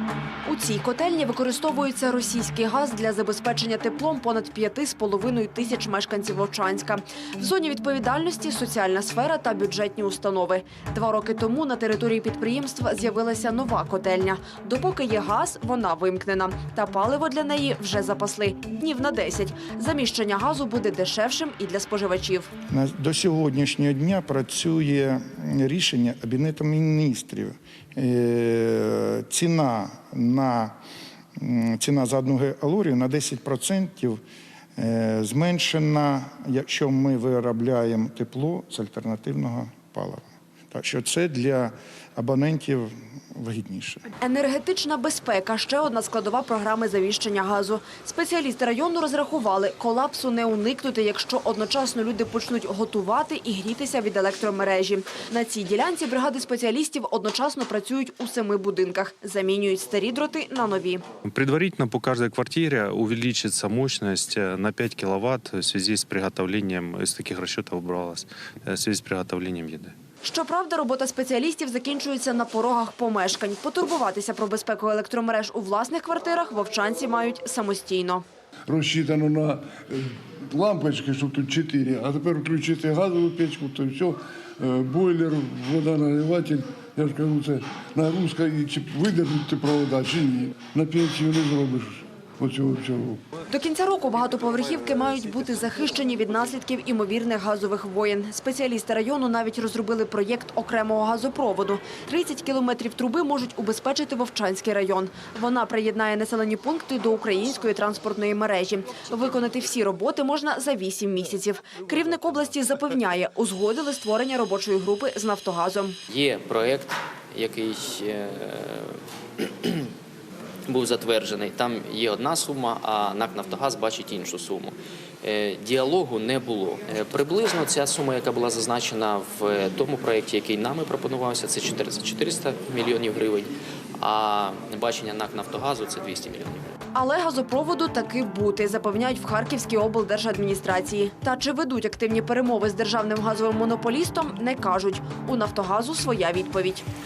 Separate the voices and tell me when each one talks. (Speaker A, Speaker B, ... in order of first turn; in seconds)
Speaker A: 0.5-22.5, 44.2-61.0, 70.2-78.2, 93.5-116.0, 136.9-146.8
Speaker B: 22.7-30.7, 31.4-34.2, 34.8-44.1
Speaker C: 61.2-69.9
Speaker D: 78.7-93.2
Speaker E: 116.1-119.9, 120.7-136.7